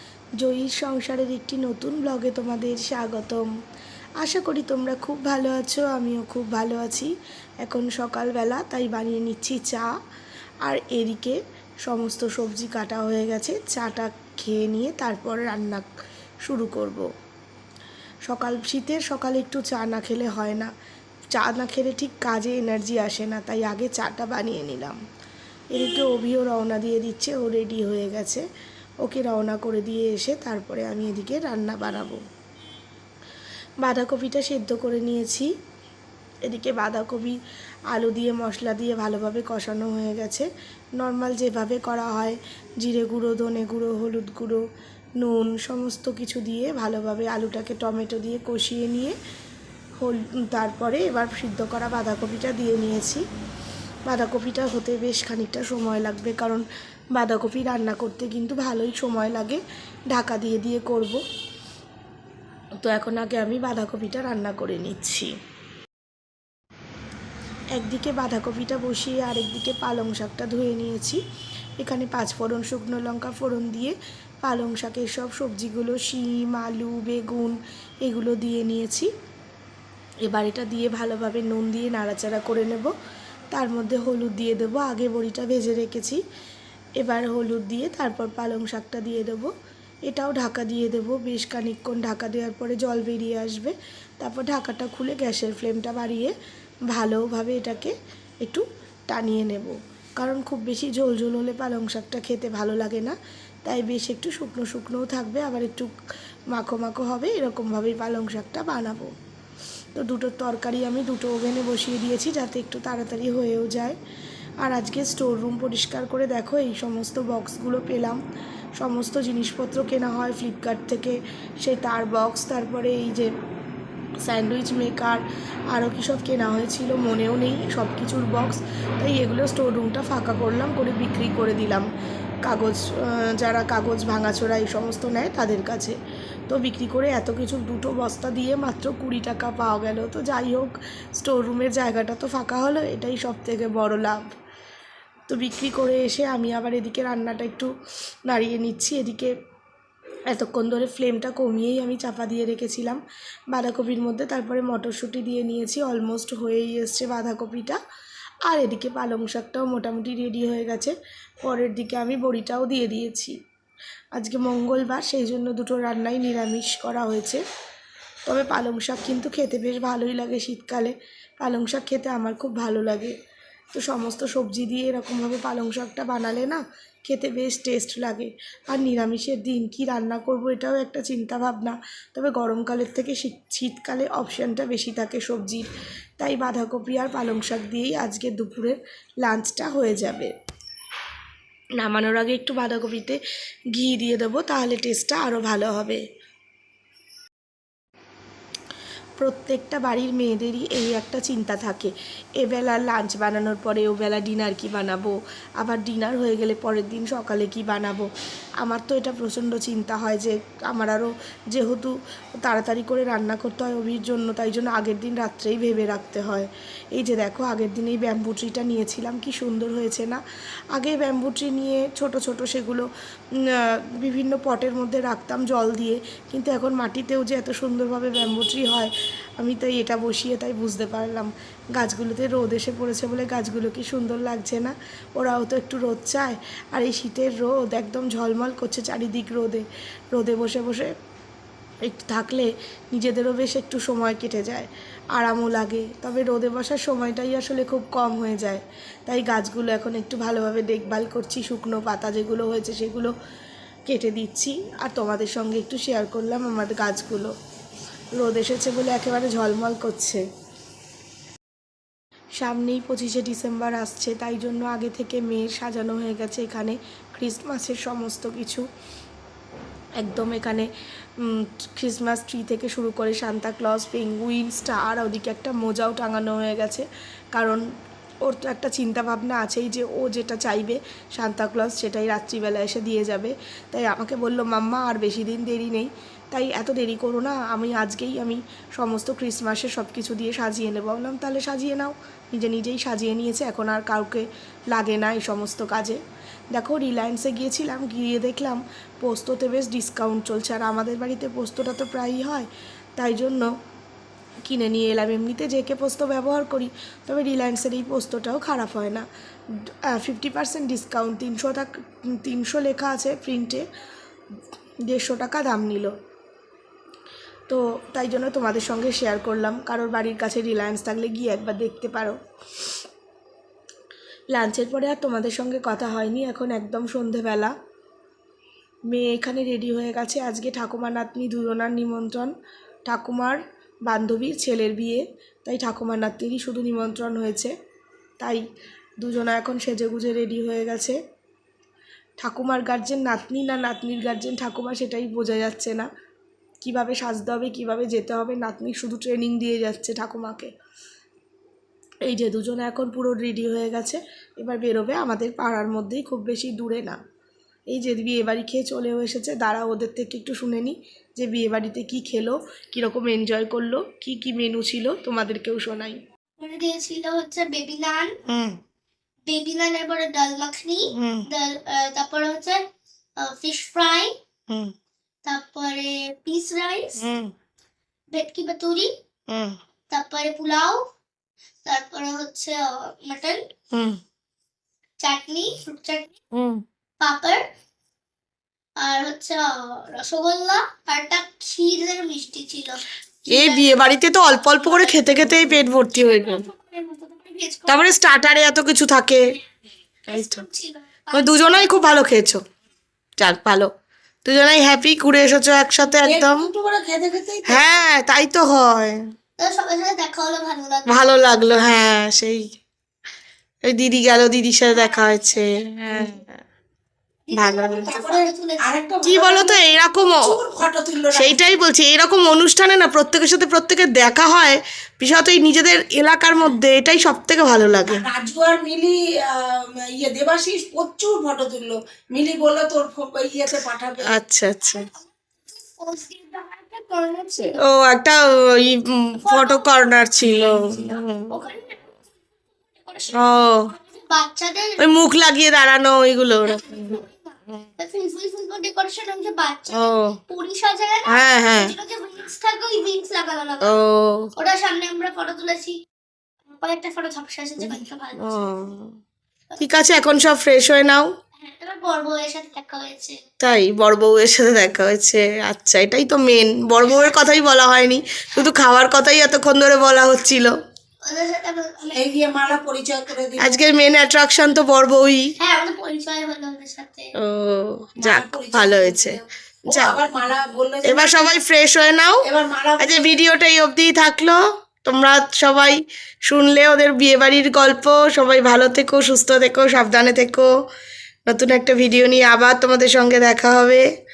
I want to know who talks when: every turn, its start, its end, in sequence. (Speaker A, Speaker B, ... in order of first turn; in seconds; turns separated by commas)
Speaker A: 0.4-3.5, Speaker A: 4.2-9.9, Speaker A: 10.6-15.9, Speaker A: 16.4-17.1, Speaker A: 18.3-20.7, Speaker A: 21.3-25.0, Speaker A: 25.7-28.4, Speaker A: 29.0-32.2, Speaker A: 33.8-35.5, Speaker A: 36.5-37.4, Speaker A: 37.9-40.5, Speaker A: 41.0-44.6, Speaker A: 45.2-49.1, Speaker A: 50.0-53.2, Speaker A: 54.1-56.6, Speaker A: 57.1-61.2, Speaker A: 62.8-65.3, Speaker A: 67.7-71.2, Speaker A: 71.8-79.1, Speaker A: 80.2-82.9, Speaker A: 83.5-86.2, Speaker A: 87.0-89.5, Speaker A: 90.1-96.3, Speaker A: 96.9-105.9, Speaker A: 106.5-109.1, Speaker A: 109.9-114.0, Speaker A: 114.6-118.2, Speaker A: 118.8-123.3, Speaker A: 124.2-131.9, Speaker A: 132.4-135.9, Speaker A: 136.5-144.2, Speaker A: 145.3-147.7, Speaker A: 148.2-149.3, Speaker A: 150.3-153.0, Speaker A: 153.5-157.8, Speaker A: 158.5-163.3, Speaker A: 164.2-167.4, Speaker A: 168.2-173.1, Speaker A: 173.7-190.3, Speaker A: 191.8-193.2, Speaker A: 193.7-196.0, Speaker A: 199.2-208.1, Speaker A: 208.6-220.2, Speaker A: 220.7-222.9, Speaker A: 223.4-240.9, Speaker A: 241.8-253.1, Speaker A: 253.9-257.3, Speaker A: 258.2-260.2, Speaker A: 262.4-268.6, Speaker A: 270.0-270.7, Speaker A: 271.2-277.6, Speaker A: 278.2-296.0, Speaker A: 296.5-303.5, Speaker A: 304.4-309.1, Speaker A: 309.7-313.6, Speaker A: 314.9-315.9, Speaker A: 317.5-322.2, Speaker A: 324.3-327.5, Speaker A: 328.9-332.3, Speaker A: 332.9-337.5, Speaker A: 339.0-341.0, Speaker A: 342.2-345.9, Speaker A: 346.6-350.5, Speaker A: 352.0-357.0, Speaker A: 357.7-366.0, Speaker B: 366.4-368.1, Speaker A: 368.3-368.6, Speaker B: 369.2-372.6, Speaker A: 370.9-371.3, Speaker B: 373.2-374.1, Speaker B: 375.2-377.0, Speaker A: 377.0-377.3, Speaker B: 378.1-378.9, Speaker A: 379.3-379.6, Speaker B: 379.9-380.8, Speaker B: 381.6-383.5, Speaker A: 383.7-384.0, Speaker B: 385.0-386.1, Speaker A: 386.3-386.6, Speaker B: 387.0-387.4, Speaker B: 388.8-393.9, Speaker A: 393.3-396.5, Speaker B: 394.5-397.9, Speaker A: 397.7-399.3, Speaker B: 400.1-401.8, Speaker A: 400.1-400.4, Speaker A: 401.1-402.4, Speaker A: 403.2-403.7, Speaker A: 404.2-406.5, Speaker C: 405.8-407.8, Speaker A: 407.4-409.0, Speaker B: 409.4-411.1, Speaker A: 410.9-412.5, Speaker A: 413.7-416.4, Speaker B: 414.7-415.4, Speaker B: 417.3-418.7, Speaker A: 417.3-418.0, Speaker C: 417.8-421.5, Speaker A: 419.1-420.4, Speaker A: 421.1-428.1, Speaker C: 427.9-434.2, Speaker A: 434.0-434.9, Speaker B: 435.5-437.6, Speaker A: 437.6-441.4, Speaker B: 439.1-441.9, Speaker B: 442.7-444.9, Speaker A: 443.1-443.7, Speaker A: 444.8-447.0, Speaker B: 446.4-453.8, Speaker A: 449.7-450.2, Speaker A: 451.1-451.7, Speaker A: 453.6-454.3, Speaker B: 454.4-455.8, Speaker B: 456.5-458.5, Speaker A: 457.6-458.9, Speaker A: 459.6-461.1, Speaker B: 461.4-463.2, Speaker A: 463.4-470.5, Speaker B: 471.0-472.4, Speaker C: 471.9-473.6, Speaker A: 473.4-475.3, Speaker B: 475.4-477.1, Speaker A: 477.2-480.0, Speaker C: 478.0-481.4, Speaker A: 480.8-482.2, Speaker C: 482.2-483.2, Speaker A: 482.8-490.5, Speaker A: 491.3-493.8